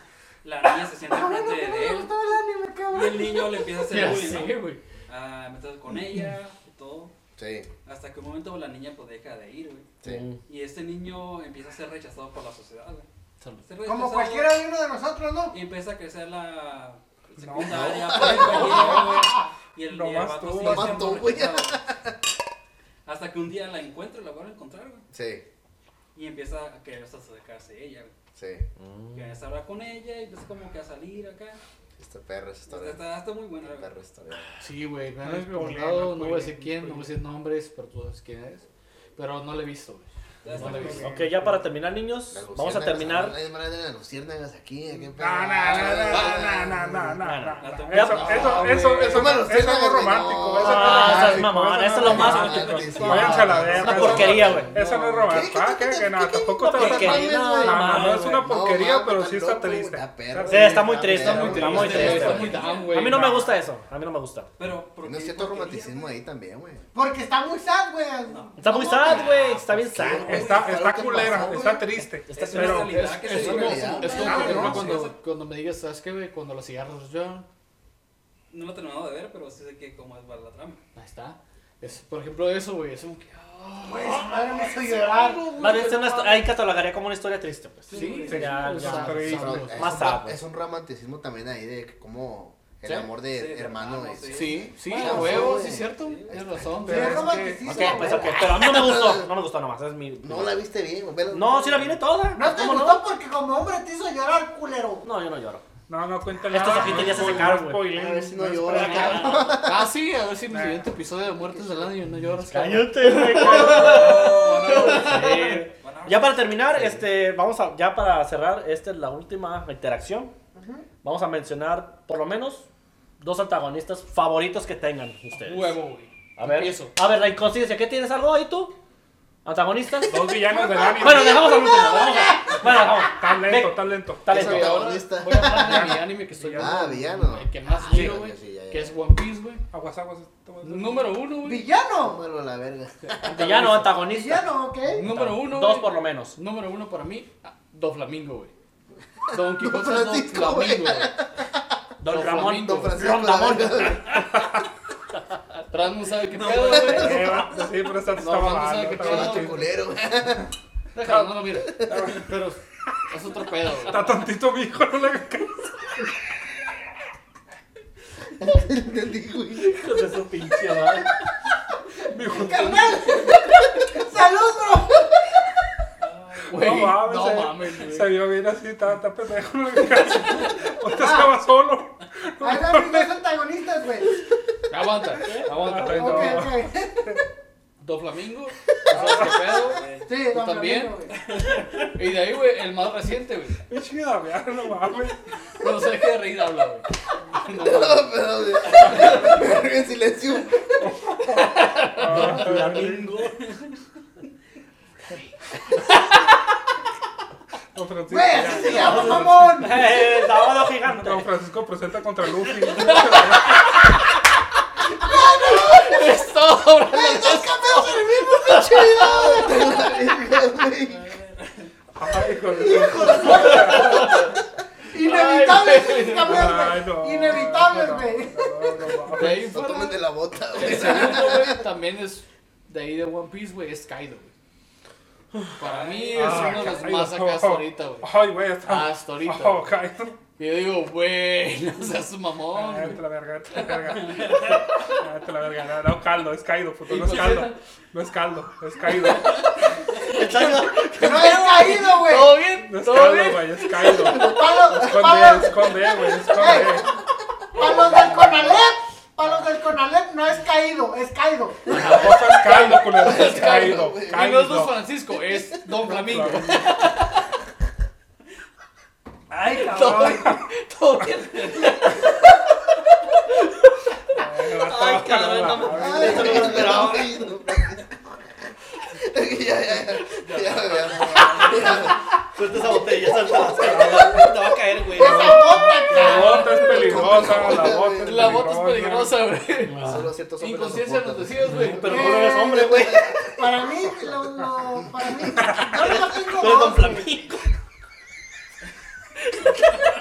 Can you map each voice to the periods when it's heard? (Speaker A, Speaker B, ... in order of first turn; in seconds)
Speaker A: 0.4-2.1, 2.9-4.5, 5.1-7.1, 7.8-9.9, 10.5-13.1, 13.6-14.6, 15.5-21.8, 23.0-25.0, 26.1-28.1, 29.1-31.6, 32.7-33.9, 40.4-41.1, 47.6-49.0, 61.7-63.6, 64.6-66.1, 68.3-71.7, 72.3-75.1, 78.5-80.8, 87.9-88.9, 93.2-96.5, 113.4-116.6, 156.3-157.2, 176.0-176.9, 189.7-190.1, 191.2-191.9, 220.8-221.7, 235.6-236.9, 244.0-244.6, 269.3-270.2, 280.2-281.7
Speaker B: 1.0-3.8, 13.8-15.6, 18.2-19.5, 66.9-69.4, 71.0-71.9, 74.0-74.7, 83.8-85.6, 96.8-98.4, 102.3-105.1, 120.5-120.8, 130.8-132.5, 141.3-142.2, 144.0-145.1, 172.2-175.1, 180.9-181.3, 182.4-184.2, 185.8-187.2, 189.2-191.2, 208.1-210.0, 215.0-216.3, 216.8-219.7, 222.7-224.2, 224.9-228.9, 250.9-252.5, 254.1-256.8, 257.5-262.0, 284.9-287.4, 291.8-297.1
Speaker C: 3.8-4.8, 13.4-13.7, 34.6-41.2, 48.1-49.3, 53.6-55.4, 61.0-63.5, 72.7-77.5, 80.9-86.5, 87.9-90.2, 94.3-97.3, 108.7-115.7, 125.3-126.9, 134.3-139.6, 140.6-141.6, 143.1-144.0, 144.9-148.5, 149.3-151.1, 152.0-153.0, 155.7-157.4, 158.1-159.7, 160.9-164.1, 176.5-178.1, 184.7-186.4, 187.8-191.0, 191.8-193.6, 195.6-198.2, 198.8-199.3, 212.7-214.0, 214.9-219.3, 223.1-224.3, 224.9-226.6, 229.1-234.3, 235.6-238.1, 238.6-239.7, 240.4-243.0, 246.8-247.6, 250.4-254.3, 261.7-267.2, 269.5-272.1, 273.3-273.5, 287.9-289.8, 290.4-291.9
Speaker D: 7.3-7.7, 17.6-19.1, 20.6-22.2, 25.1-25.4, 28.3-28.7, 32.0-33.0, 33.6-34.5, 42.3-47.1, 48.9-62.6, 65.0-66.8, 69.6-71.0, 73.2-74.9, 89.3-96.8, 97.6-99.3, 100.2-102.0, 107.9-109.9, 111.4-111.9, 134.3-136.0, 136.6-139.0, 142.0-143.7, 149.3-154.2, 156.7-157.5, 159.0-160.5, 161.7-162.2, 168.4-169.8, 197.5-200.9, 218.4-221.1, 222.6-224.3, 229.2-231.6, 254.0-255.3, 263.0-264.3, 275.7-277.9, 278.9-282.0, 283.2-284.3, 286.5-288.4, 289.8-294.1, 295.0-295.3
Speaker E: 10.0-10.4, 28.8-29.4, 41.0-43.4, 47.2-48.8, 50.5-54.7, 56.7-58.5, 60.5-64.5, 68.6-70.5, 72.0-73.0, 85.6-90.4, 97.6-100.6, 101.3-103.0, 105.0-105.6, 106.5-107.9, 108.7-109.5, 112.4-120.3, 121.0-122.7, 123.2-125.8, 126.4-128.7, 129.4-130.2, 130.8-134.9, 143.3-144.5, 145.0-146.4, 152.0-154.2, 169.6-171.1, 185.3-186.2, 201.3-203.4, 208.6-211.3, 249.9-251.5, 274.6-277.2, 282.3-285.7, 289.7-290.1, 291.5-293.1, 295.7-297.5
Speaker F: 17.4-18.1, 19.9-21.2, 35.2-37.1, 40.5-41.5, 45.1-62.3, 70.2-73.0, 74.2-75.0, 88.2-89.7, 96.8-97.9, 105.9-109.4, 110.5-110.8, 130.0-131.4, 133.1-134.4, 135.3-136.9, 139.7-141.1, 154.1-154.6, 156.7-159.7, 161.1-162.3, 163.8-166.1, 172.1-173.0, 176.5-183.1, 185.4-187.2, 188.9-189.3, 193.7-195.2, 200.8-203.2, 207.7-209.6, 210.8-214.0, 221.9-224.2, 226.2-229.6, 236.1-240.1, 242.5-249.5, 252.6-256.9, 261.7-264.8, 265.8-266.9, 269.6-270.4, 274.1-276.5, 283.7-284.3, 285.0-289.2, 295.4-295.8